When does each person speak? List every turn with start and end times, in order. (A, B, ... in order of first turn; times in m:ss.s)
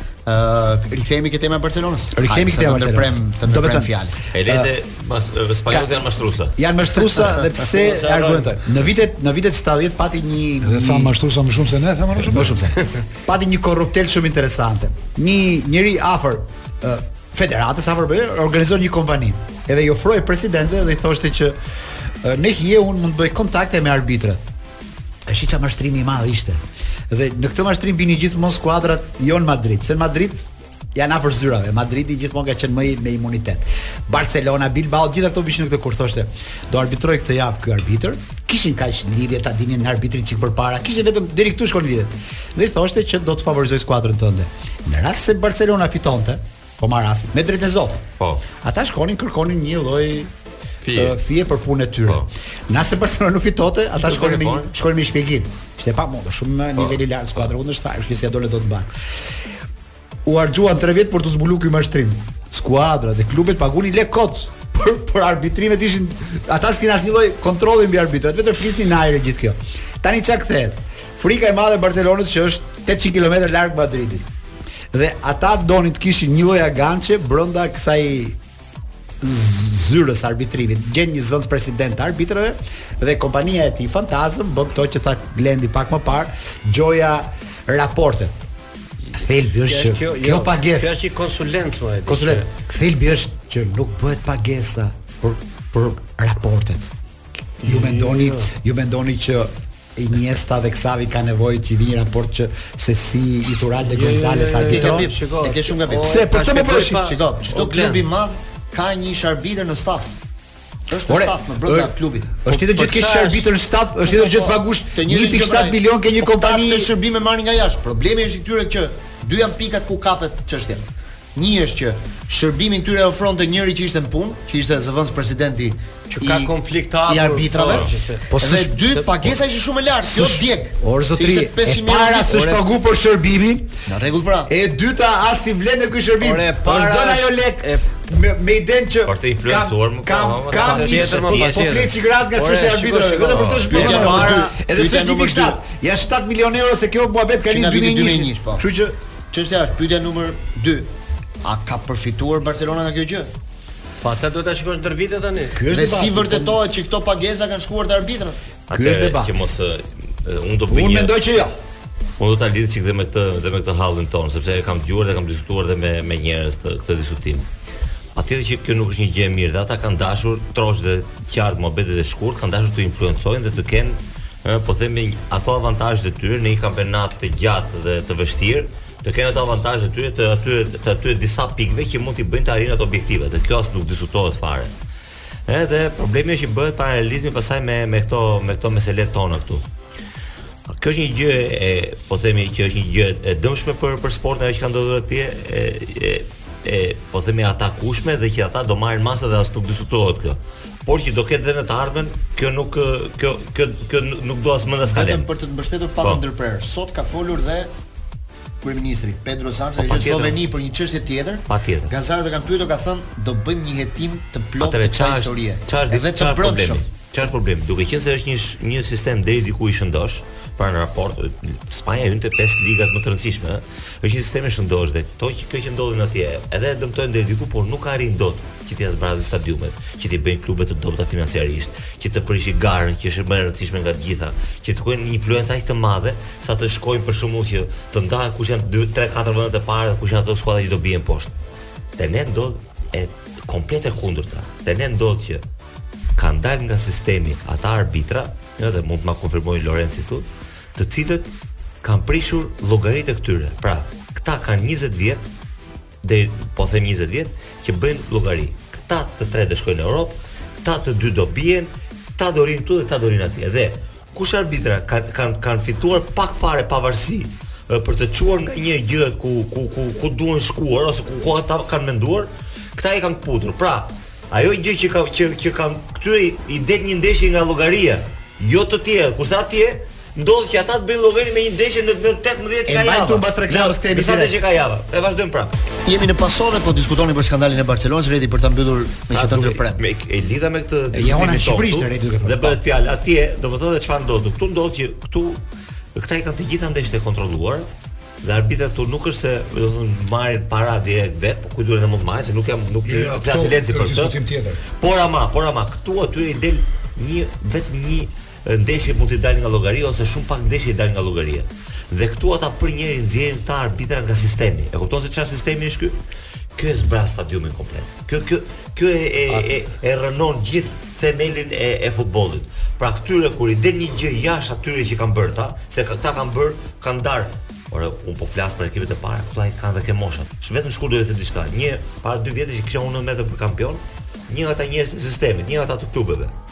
0:00.2-0:04.1 A
0:02.2-0:03.9 B
0:04.3-0:06.5 C
0:04.4-0:04.7 B
0:05.7-0:06.0 B
0:06.6-0:11.1 B
0:07.6-0:08.6 D
0:10.6-0:12.8 E
0:12.2-0:21.6 B
0:22.2-0:24.4 B
0:25.3-0:48.0 B
0:48.6-0:50.3 B
0:50.8-0:51.2 C
0:50.9-0:58.9 B
0:54.0-0:54.7 C
1:00.2-1:14.2 B
1:14.9-1:18.4 B
1:19.2-1:28.3 B
1:29.1-1:31.0 B
1:29.6-1:32.5 D
1:32.1-1:36.9 B
1:37.6-1:45.1 B
1:37.6-1:38.5 D
1:43.8-1:48.0 D
1:44.7-1:50.1 A
1:45.9-1:47.0 B
1:50.9-1:52.3 A
1:51.1-1:56.9 B
1:52.5-1:53.5 D
1:54.1-2:00.8 A
2:01.3-2:06.5 A
2:06.1-2:08.2 D
2:07.0-2:12.3 A
2:08.3-2:09.0 B
2:10.1-2:13.7 B
2:12.3-2:12.6 D
2:13.9-2:14.5 A
2:14.5-2:29.0 B
2:16.2-2:17.8 D
2:19.0-2:21.5 C
2:20.5-2:24.5 D
2:23.3-2:23.6 C
2:23.7-2:25.6 A
2:27.5-2:28.6 A
2:29.3-2:30.9 A
2:31.4-2:33.3 A
2:34.0-2:35.6 D
2:35.5-2:36.6 B
2:35.7-2:38.4 A
2:38.7-2:41.2 C
2:38.7-2:39.4 B
2:40.7-2:41.5 B
2:42.2-2:47.5 C
2:48.1-3:04.7 C
3:05.5-3:09.6 C
3:10.7-3:25.2 C
3:24.8-3:27.7 A
3:28.6-3:36.8 A
3:29.8-3:30.4 C
3:31.5-3:31.9 C
3:34.6-4:01.4 C
4:02.0-4:05.4 C
4:06.2-4:11.3 C
4:11.8-4:15.2 C
4:16.0-4:45.6 C
4:42.6-4:44.4 B
4:45.8-4:49.8 A
4:49.1-4:55.4 C
4:50.9-4:52.6 B
4:56.0-4:57.7 C
4:58.2-5:04.2 C
5:02.8-5:04.6 E
5:04.7-5:15.9 C
5:16.6-5:36.3 C